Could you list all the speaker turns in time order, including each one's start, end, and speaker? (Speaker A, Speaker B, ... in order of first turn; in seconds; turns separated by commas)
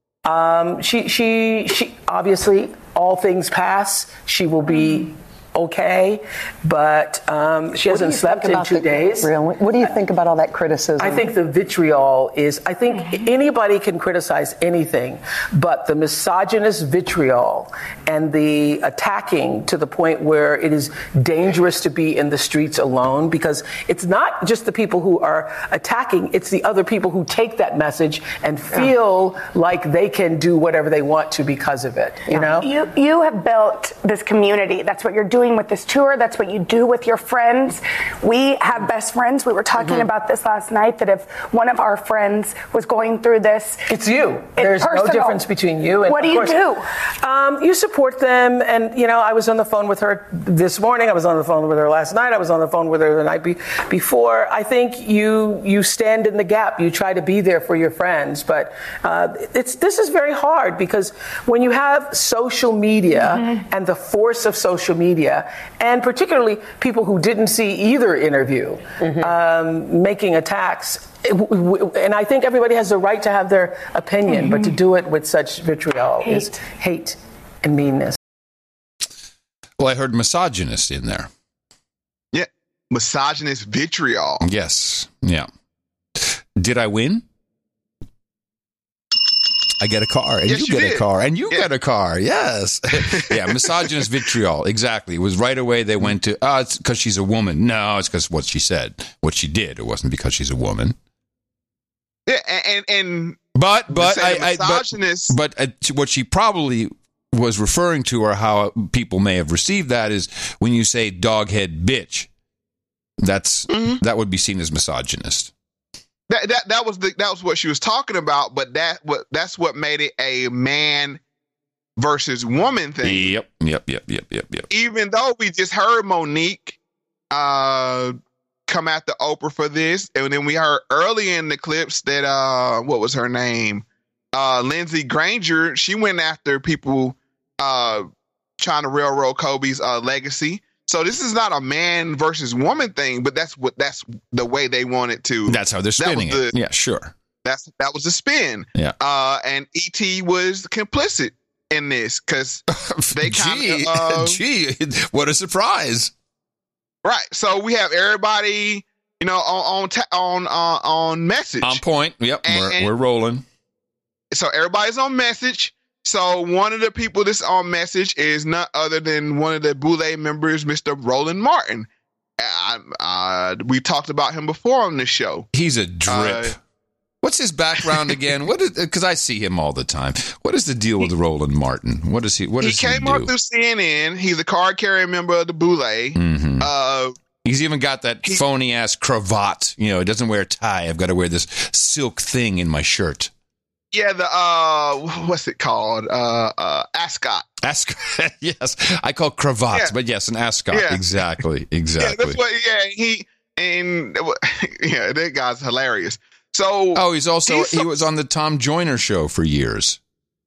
Speaker A: 0.2-9.3, Speaker B: 7.8-11.3, Speaker A: 11.0-32.7, Speaker C: 32.5-43.8, Speaker A: 43.9-46.6, Speaker C: 44.5-45.4, Speaker C: 46.0-46.8, Speaker A: 47.2-78.2, Speaker B: 69.0-69.3, Speaker D: 79.8-81.3, Speaker E: 82.3-84.4, Speaker D: 84.4-85.5, Speaker D: 86.2-87.2, Speaker D: 89.8-100.9, Speaker E: 90.5-91.7, Speaker E: 93.2-93.9, Speaker E: 102.3-105.3, Speaker D: 103.5-112.3, Speaker D: 113.2-115.5, Speaker E: 113.7-114.0, Speaker E: 116.3-121.2, Speaker E: 122.0-123.3, Speaker D: 123.0-124.7, Speaker E: 124.7-126.8, Speaker E: 127.3-128.1, Speaker E: 128.7-138.1, Speaker E: 138.6-146.5, Speaker D: 145.5-147.1, Speaker E: 147.4-154.4, Speaker D: 152.8-156.1, Speaker E: 157.0-161.8, Speaker D: 161.6-163.4, Speaker E: 162.4-162.9, Speaker E: 164.3-171.9, Speaker E: 172.4-175.5, Speaker D: 175.5-176.5, Speaker E: 176.1-176.5, Speaker D: 177.2-183.3, Speaker E: 182.6-187.1, Speaker D: 186.2-186.7, Speaker D: 187.4-193.3, Speaker E: 193.9-197.4, Speaker D: 197.6-202.4, Speaker E: 200.7-201.0, Speaker E: 202.0-208.1, Speaker D: 206.9-210.0